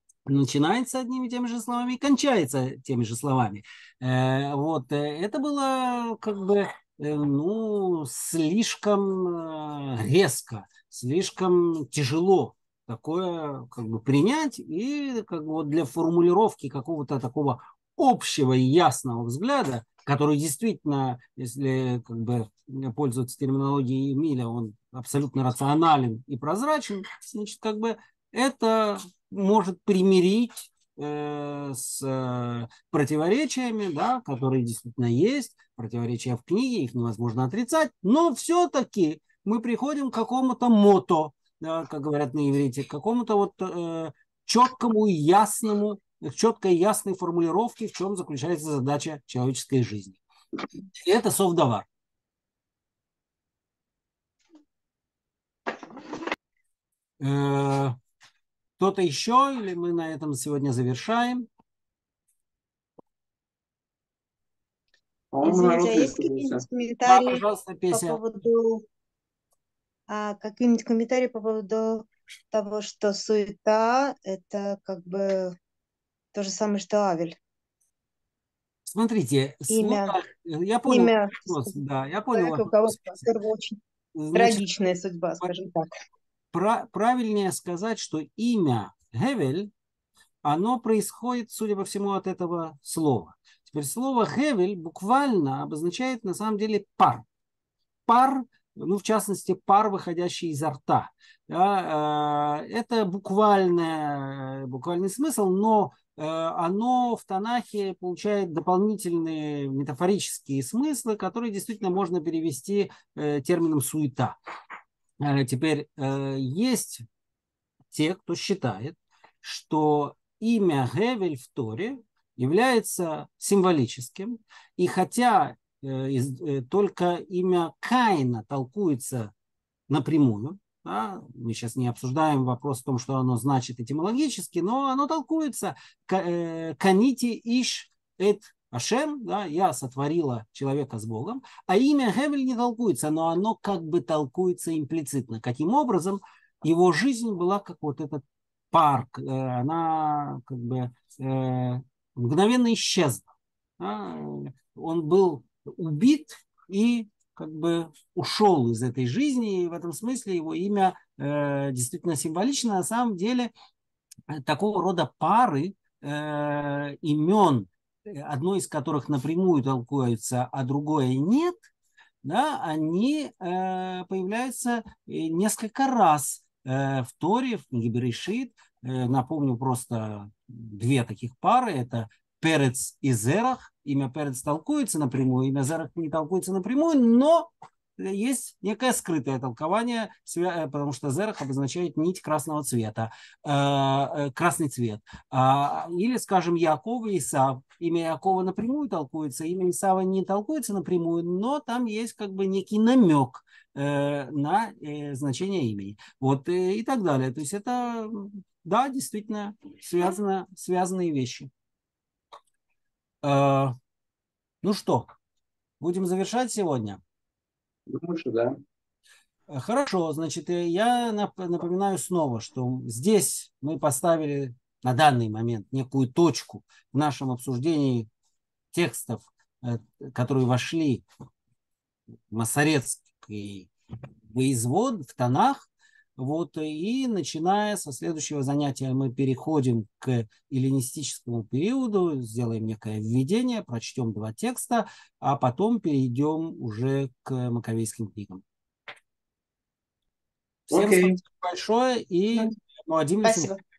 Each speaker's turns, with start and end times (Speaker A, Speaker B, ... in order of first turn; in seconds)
Speaker A: 0.3-50.2, 50.9-51.9, 57.2-58.0, 58.8-61.5, 67.0-68.2, 78.9-83.4, 84.1-84.8, 85.4-85.7, 86.5-89.7, 90.4-97.2, 98.1-114.4, 115.2-117.0, 117.9-129.3, 129.9-153.3, 153.8-163.5, 164.3-171.7, 172.2-211.5, 213.2-213.7, 214.6-215.1, 215.8-217.0, 219.5-228.1, 228.7-231.0, 232.3-233.7, 234.3-248.4, 250.7-253.5
Speaker B: 65.3-66.6, 217.9-218.5, 250.7-251.0
Speaker C: 65.4-68.8, 70.1-75.5, 76.3-77.3, 79.7-80.2, 80.9-81.7, 82.3-83.8, 84.3-85.8